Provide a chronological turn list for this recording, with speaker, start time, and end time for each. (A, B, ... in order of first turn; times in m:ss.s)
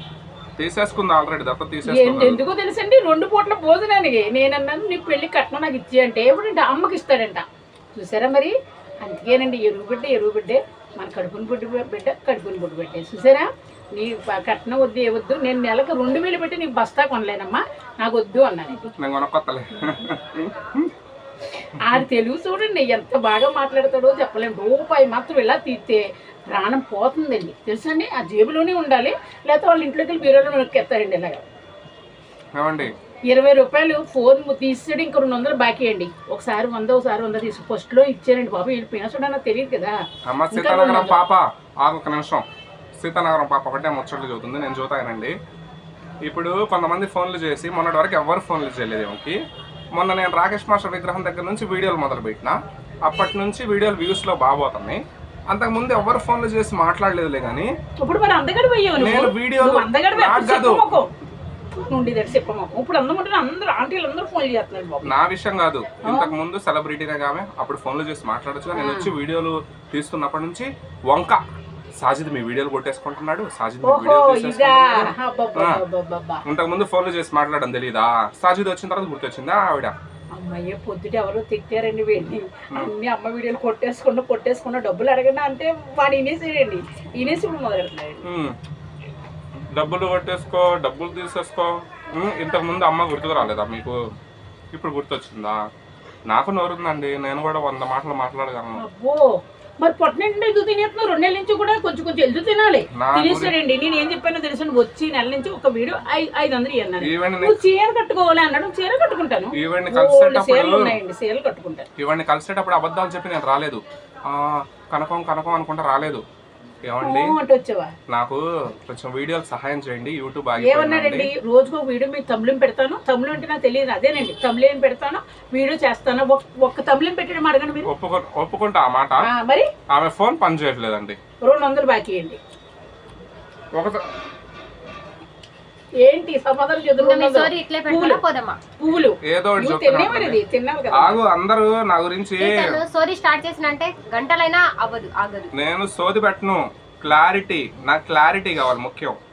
0:00.6-0:02.4 A
0:01.8-0:18.8 B
0:18.9-0:20.9 A
0:21.8-0:31.4 B
0:32.6-0:32.9 A
0:33.3-0:39.9 B
0:40.3-0:42.4 A
0:40.5-0:41.2 B
0:43.0-0:45.3 A
0:46.2-0:49.4 A
0:50.0-0:55.0 A
0:55.5-0:57.7 A
0:58.0-1:01.1 B
0:59.0-1:00.9 A
1:01.8-1:05.1 B
1:05.0-1:11.4 A
1:06.1-1:06.3 B
1:08.7-1:09.1 B
1:12.0-1:15.8 A
1:13.8-1:16.4 B
1:16.5-1:19.9 A
1:20.4-1:28.2 B
1:28.2-1:28.6 A
1:29.7-1:34.0 A
1:34.7-1:35.6 A
1:36.3-1:38.8 A
1:38.8-1:51.9 B
1:43.0-1:43.5 A
1:47.0-1:47.6 A
1:49.6-1:50.9 A
1:52.0-1:56.2 A
1:56.9-1:57.3 A
1:57.0-1:57.9 B
1:58.1-2:01.3 A
2:00.6-2:07.9 B
2:07.9-2:09.2 A
2:09.3-2:09.7 B
2:09.9-2:11.2 A
2:11.4-2:12.4 B
2:13.8-2:14.0 A
2:16.0-2:18.2 B
2:17.0-2:18.6 C
2:18.8-2:21.2 B
2:19.2-2:20.4 A
2:20.9-2:22.8 A
2:22.4-2:25.5 C
2:25.6-2:29.2 A